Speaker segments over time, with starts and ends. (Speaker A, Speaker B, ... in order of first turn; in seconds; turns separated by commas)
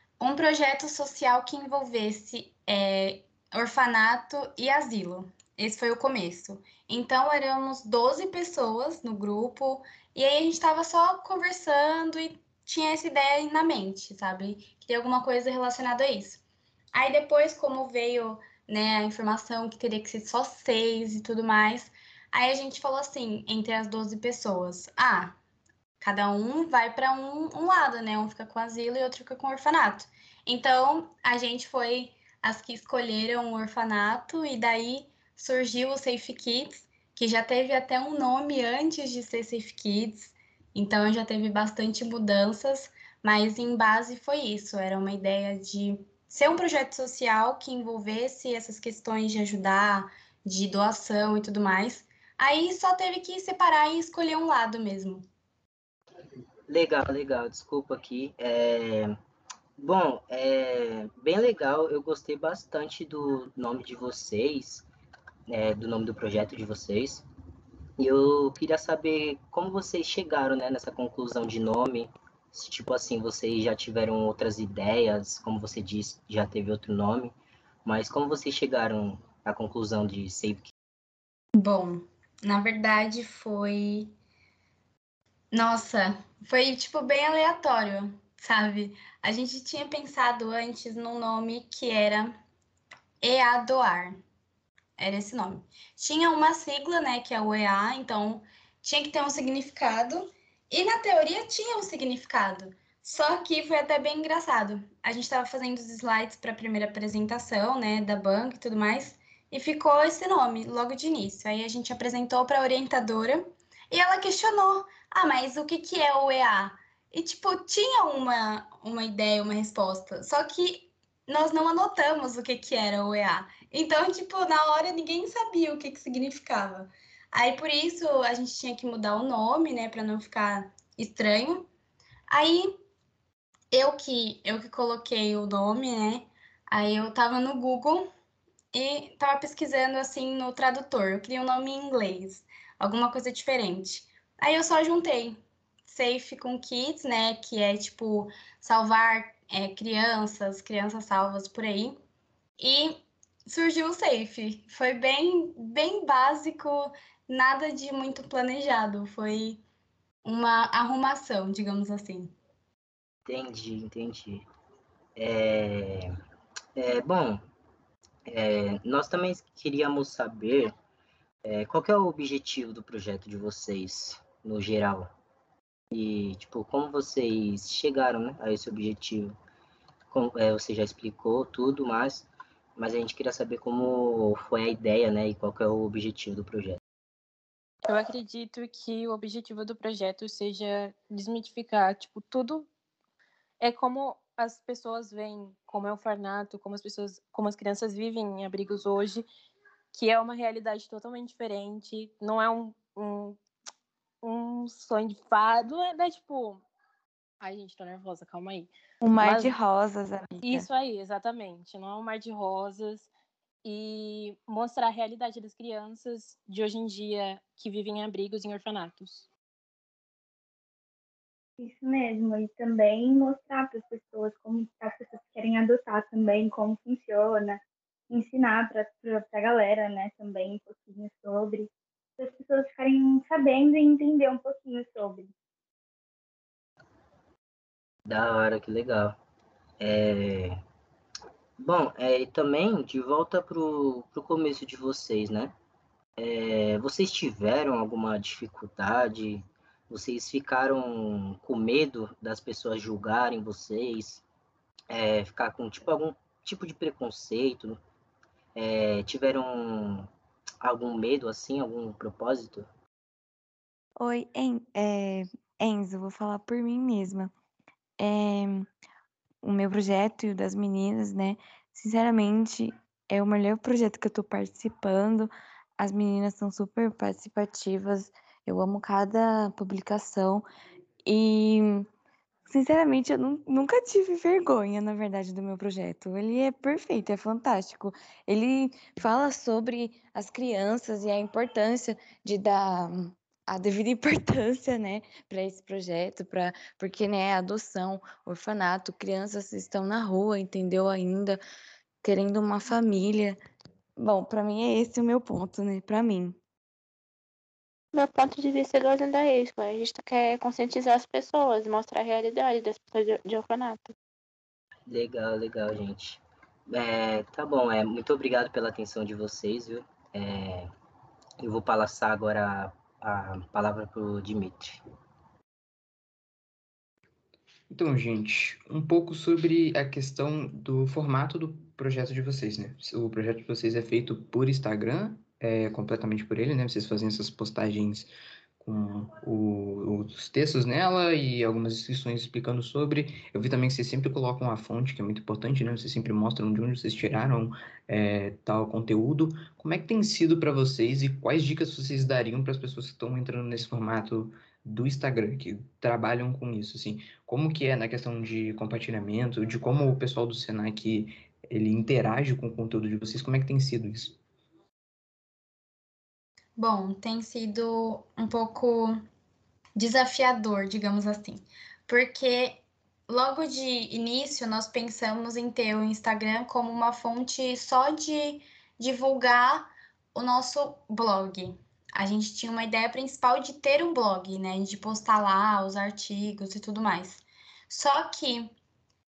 Speaker A: 0.2-16.4, Speaker A: 16.9-25.4, Speaker A: 26.0-55.2, Speaker B: 56.7-59.2, Speaker B: 59.8-64.8, Speaker B: 65.5-67.2, Speaker B: 68.0-80.7, Speaker A: 81.6-84.1, Speaker A: 85.5-92.3, Speaker A: 93.2-94.2, Speaker A: 95.0-131.7, Speaker A: 132.3-132.7, Speaker A: 133.7-138.1, Speaker A: 138.7-152.0, Speaker A: 152.6-159.6, Speaker A: 160.2-162.3, Speaker B: 163.3-164.4, Speaker B: 165.2-166.1, Speaker B: 166.8-167.4, Speaker B: 168.3-170.7, Speaker B: 171.4-175.1, Speaker B: 175.9-179.4, Speaker B: 180.1-186.8, Speaker C: 187.8-192.7, Speaker C: 193.6-199.3, Speaker C: 199.9-203.4, Speaker C: 204.2-206.6, Speaker C: 207.4-208.7, Speaker D: 209.0-210.7, Speaker C: 209.2-209.5, Speaker C: 210.4-213.1, Speaker C: 213.6-219.3, Speaker E: 221.6-235.3, Speaker B: 238.1-239.2, Speaker B: 239.8-240.6, Speaker B: 241.6-245.5, Speaker B: 246.2-254.2, Speaker B: 254.9-257.8, Speaker B: 258.5-260.1, Speaker B: 260.6-262.7, Speaker D: 264.0-267.3, Speaker D: 268.0-268.7, Speaker D: 269.4-280.5, Speaker D: 281.0-281.9, Speaker D: 282.5-301.4, Speaker D: 302.0-303.4, Speaker D: 304.0-306.4, Speaker F: 307.9-313.9, Speaker B: 314.9-320.7, Speaker B: 321.4-324.8, Speaker G: 327.7-364.2, Speaker A: 366.6-369.0, Speaker A: 369.8-388.5